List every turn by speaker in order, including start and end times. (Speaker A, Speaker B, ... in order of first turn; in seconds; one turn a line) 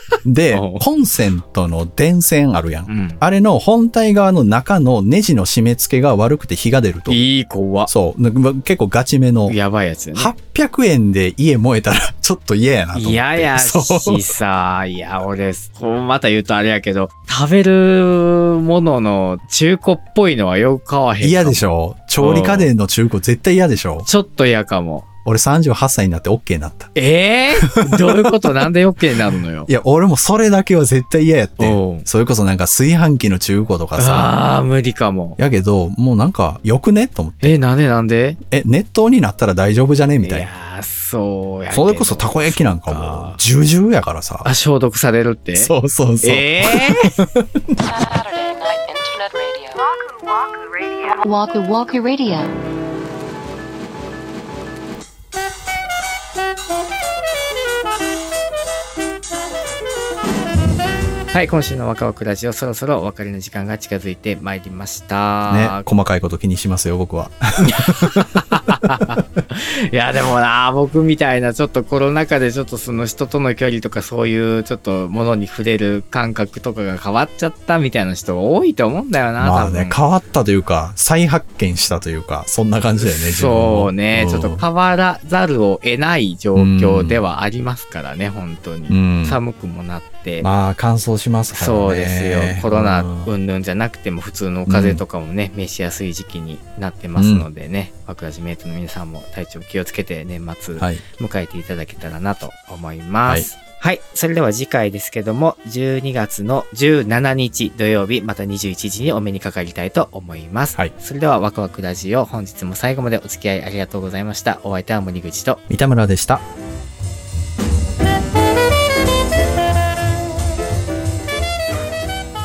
Speaker A: 0.2-7.2
Speaker B: 0.5-0.8
Speaker B: 2.9-3.2
Speaker B: 7.1-7.9
Speaker A: 7.9-9.6
Speaker B: 9.5-10.3
Speaker A: 10.1-14.2
Speaker B: 12.9-21.6
Speaker A: 21.2-24.1
Speaker B: 22.2-22.7
Speaker B: 24.0-25.1
Speaker A: 25.2-26.9
Speaker B: 26.9-29.7
Speaker A: 27.6-28.3
Speaker A: 29.7-34.3
Speaker B: 31.6-32.0
Speaker B: 34.0-35.4
Speaker A: 35.4-37.6
Speaker B: 37.4-38.4
Speaker A: 38.5-40.5
Speaker B: 40.2-43.4
Speaker A: 41.7-44.5
Speaker B: 44.4-47.1
Speaker A: 45.5-47.6
Speaker C: 47.8-49.8
Speaker C: 51.1-52.5
Speaker B: 61.3-65.8
Speaker A: 65.5-68.4
Speaker B: 67.7-80.0
Speaker A: 79.4-84.6
Speaker B: 83.0-90.5
Speaker A: 86.5-87.2
Speaker A: 88.9-89.4
Speaker A: 90.4-93.3
Speaker B: 91.5-115.6
Speaker A: 94.7-95.0
Speaker A: 97.2-97.5
Speaker A: 115.7-116.4